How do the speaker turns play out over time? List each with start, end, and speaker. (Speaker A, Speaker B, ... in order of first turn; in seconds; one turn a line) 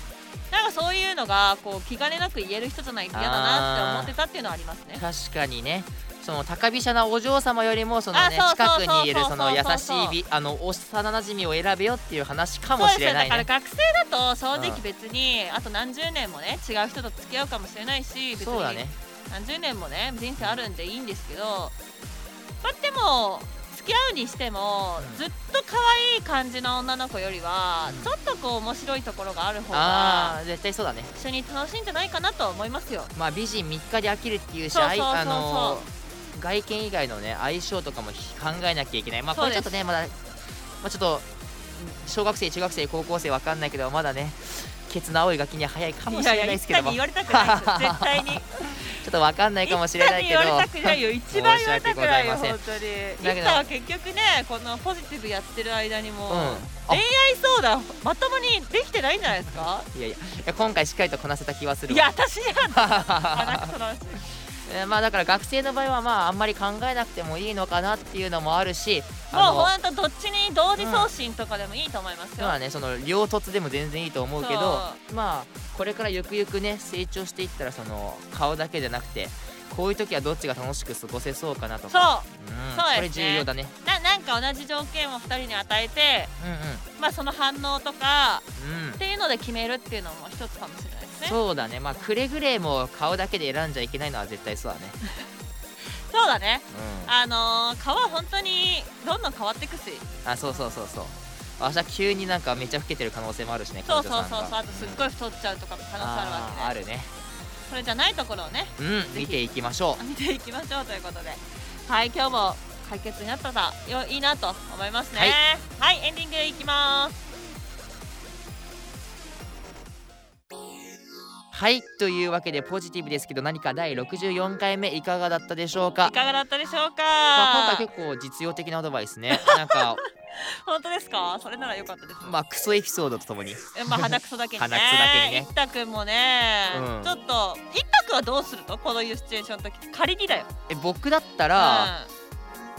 Speaker A: 0.5-5.0
Speaker B: 3.1-4.1
Speaker B: 5.0-13.5
Speaker A: 8.1-10.2
Speaker A: 12.8-21.7
Speaker B: 14.5-14.8
Speaker B: 18.4-18.9
Speaker A: 22.6-30.4
Speaker B: 25.0-25.3
Speaker B: 27.9-28.1
Speaker B: 29.7-31.1
Speaker A: 31.1-33.1
Speaker B: 33.1-40.2
Speaker A: 34.7-35.8
Speaker A: 39.3-39.8
Speaker B: 40.8-48.4
Speaker A: 46.1-49.0
Speaker B: 49.0-52.6
Speaker A: 49.6-59.9
Speaker B: 53.2-53.6
Speaker B: 56.3-57.0
Speaker B: 59.9-62.1
Speaker A: 61.9-64.3
Speaker B: 62.7-63.7
Speaker B: 64.7-69.7
Speaker A: 69.3-72.6
Speaker B: 70.8-71.1
Speaker B: 72.4-83.7
Speaker A: 74.4-75.0
Speaker A: 81.9-86.3
Speaker B: 86.4-86.8
Speaker A: 87.0-88.4
Speaker B: 88.6-89.0
Speaker A: 89.0-91.4
Speaker B: 91.2-95.0
Speaker A: 96.1-100.6
Speaker B: 96.7-97.1
Speaker B: 100.2-105.0
Speaker A: 103.8-106.8
Speaker B: 106.0-107.1
Speaker A: 107.7-109.4
Speaker B: 108.8-110.0
Speaker A: 110.0-117.2
Speaker B: 115.1-115.4
Speaker B: 121.5-126.1
Speaker A: 126.0-127.8
Speaker B: 127.3-130.0
Speaker A: 129.3-132.4
Speaker B: 132.2-135.5
Speaker A: 133.7-140.5
Speaker B: 136.7-137.2
Speaker B: 140.7-141.9
Speaker A: 141.6-142.1